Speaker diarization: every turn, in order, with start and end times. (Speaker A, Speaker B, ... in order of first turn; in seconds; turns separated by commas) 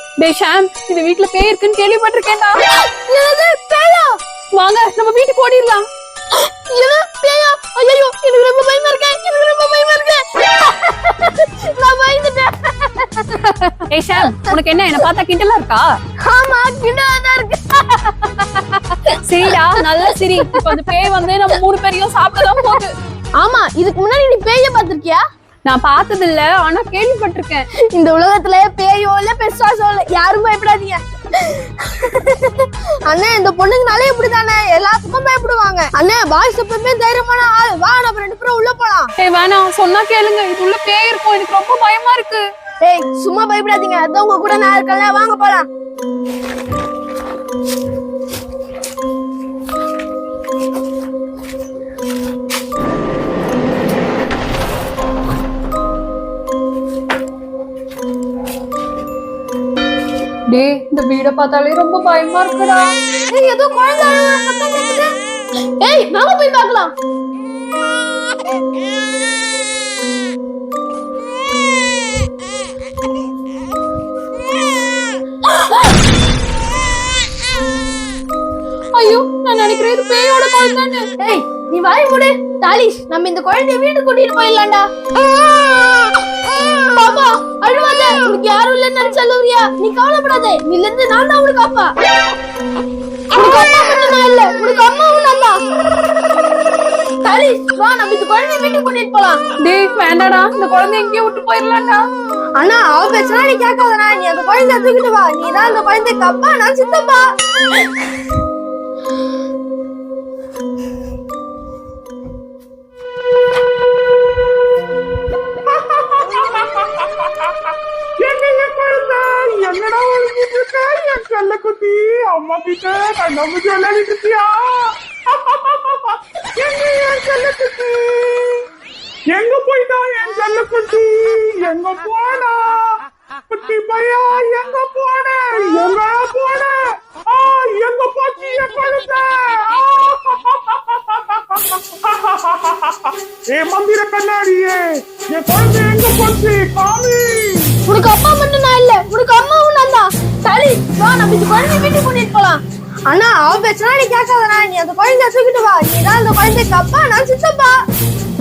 Speaker A: 0.2-2.6, Speaker B: 2.8-4.2, Speaker A: 4.6-5.8, Speaker B: 6.3-13.3, Speaker A: 13.4-16.0, Speaker B: 14.2-14.6, Speaker B: 16.2-19.1, Speaker A: 19.2-22.9, Speaker B: 23.4-25.2, Speaker A: 25.6-27.6, Speaker B: 27.9-39.1, Speaker A: 39.2-42.4, Speaker B: 42.8-45.7, Speaker A: 60.5-63.0, Speaker B: 63.3-65.1, Speaker B: 65.8-66.9, Speaker A: 78.9-81.0, Speaker B: 81.2-84.9, Speaker B: 86.6-91.9, Speaker B: 93.3-95.6, Speaker B: 97.2-99.4, Speaker A: 99.6-102.0, Speaker B: 102.6-107.3, Speaker C: 115.7-128.7, Speaker C: 129.3-147.8, Speaker B: 147.9-157.8